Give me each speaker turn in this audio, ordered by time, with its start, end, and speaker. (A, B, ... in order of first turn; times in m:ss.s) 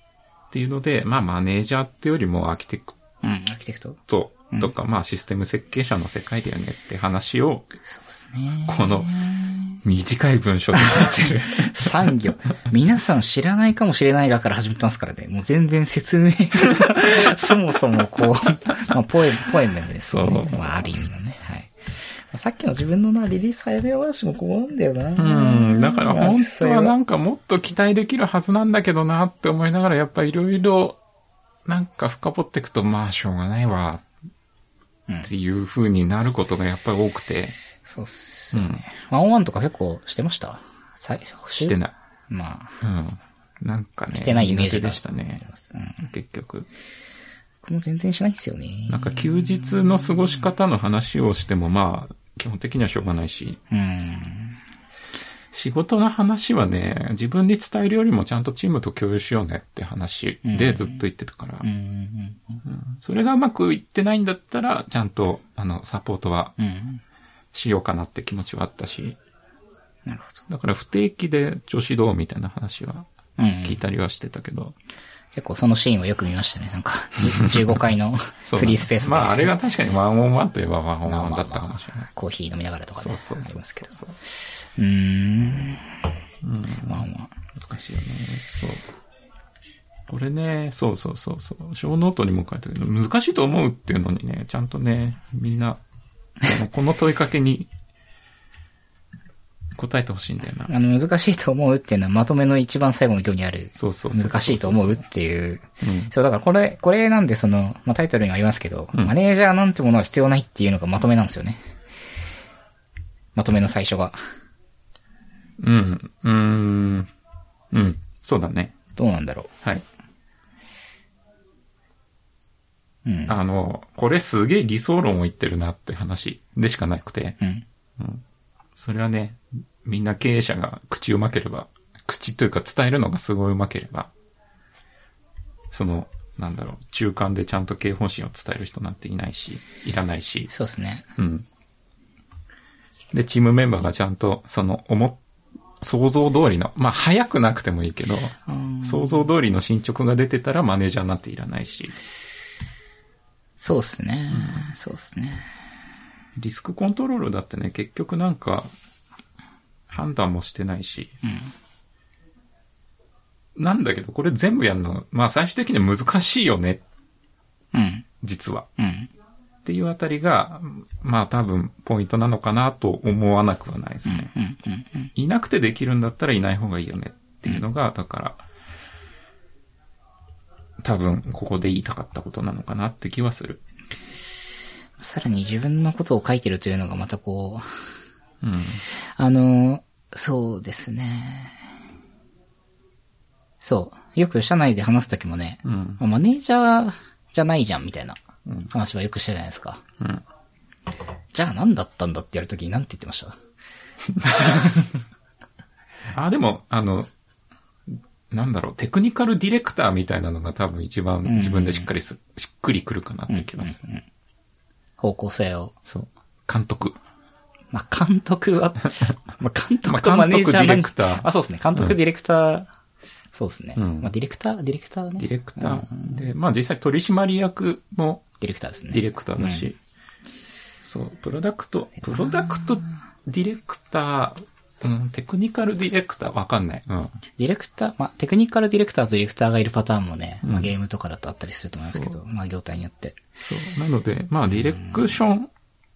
0:00.5-0:03.0 A
0:03.2-0:04.0 B
0:04.1-0:07.7 A
0:07.9-0:09.8 B
0:08.7-0:09.2 A
0:09.8-0:12.1 A
0:10.8-0:27.0 B
0:20.1-0:20.9 A
0:25.2-0:31.0 A
0:31.6-0:34.0 A
0:35.2-0:37.6 A
0:37.8-0:41.8 B
0:38.5-0:38.8 A
0:41.6-0:41.9 A
0:42.3-0:42.8 B
0:42.8-0:45.5 A
0:44.1-0:46.0 B
0:46.0-0:46.7 A
0:47.6-0:50.4 B
0:48.9-0:53.6 A
0:53.7-0:54.6 B
0:55.5-1:01.7 A
1:00.4-1:01.0 B
1:01.6-1:02.6 B
1:02.7-1:06.6 A
1:06.6-1:07.0 B
1:07.5-1:09.2 A
1:10.1-1:10.4 B
1:10.5-1:13.1 A
1:13.4-1:13.8 B
1:13.6-1:14.8 A
1:15.4-1:19.5 B
1:18.4-1:22.1 A
1:21.1-1:24.0 B
1:23.0-1:24.2 A
1:24.7-1:25.9 B
1:26.4-1:28.8 A
1:26.8-1:27.3 B
1:30.1-1:35.8 A
1:36.4-1:37.7 A
1:39.8-1:40.7 A
1:40.7-1:51.6 B
1:43.8-1:45.0 A
1:45.8-1:46.1 A
1:53.4-1:54.2 B
1:55.6-1:57.1 A
1:57.7-1:58.8 A
1:59.0-1:59.5 B
2:03.0-2:03.4 B
2:03.3-2:07.4 A
2:07.4-2:07.6 B
2:08.0-2:08.2 A
2:08.8-2:14.1 A
2:15.7-2:20.5 A
2:20.5-2:21.1 B
2:21.2-2:21.5 A
2:23.1-2:25.2 A
2:25.8-2:32.0 A
2:28.5-2:29.3 B
2:33.6-2:35.6 B
2:34.3-2:34.7 A
2:36.4-2:38.7 A
2:39.9-2:41.2 A
2:41.2-2:41.5 B
2:43.6-2:46.8 A
2:47.7-2:48.1 B
2:48.2-2:48.7 A
2:48.8-2:49.1 B
2:49.6-2:54.3 A
2:54.0-2:55.1 B
2:55.2-2:58.5 A
3:00.8-3:03.6 A
3:05.0-3:07.9 B
3:08.4-3:08.8 A
3:08.9-3:11.7 B
3:13.6-3:18.2 B
3:15.6-3:16.0 A
3:18.7-3:19.8 B
3:20.0-3:20.2 A
3:21.3-3:23.4 B
3:24.3-3:24.9 B
3:26.1-3:27.1 A
3:27.9-3:33.8 A
3:31.3-3:31.9 B
3:33.3-3:34.0 B
3:35.0-3:35.8 B
3:35.9-3:37.0 A
3:37.7-3:42.7 B
3:39.8-3:42.0 A
3:43.3-3:46.3 B
3:43.8-3:44.1 A
3:45.2-3:48.3 A
3:48.4-3:49.7 B
3:48.9-3:49.8 A
3:50.8-3:57.2 A
3:52.0-3:52.9 B
3:57.4-4:03.2 B
4:00.4-4:00.7 A
4:01.8-4:02.2 A
4:03.4-4:05.5 A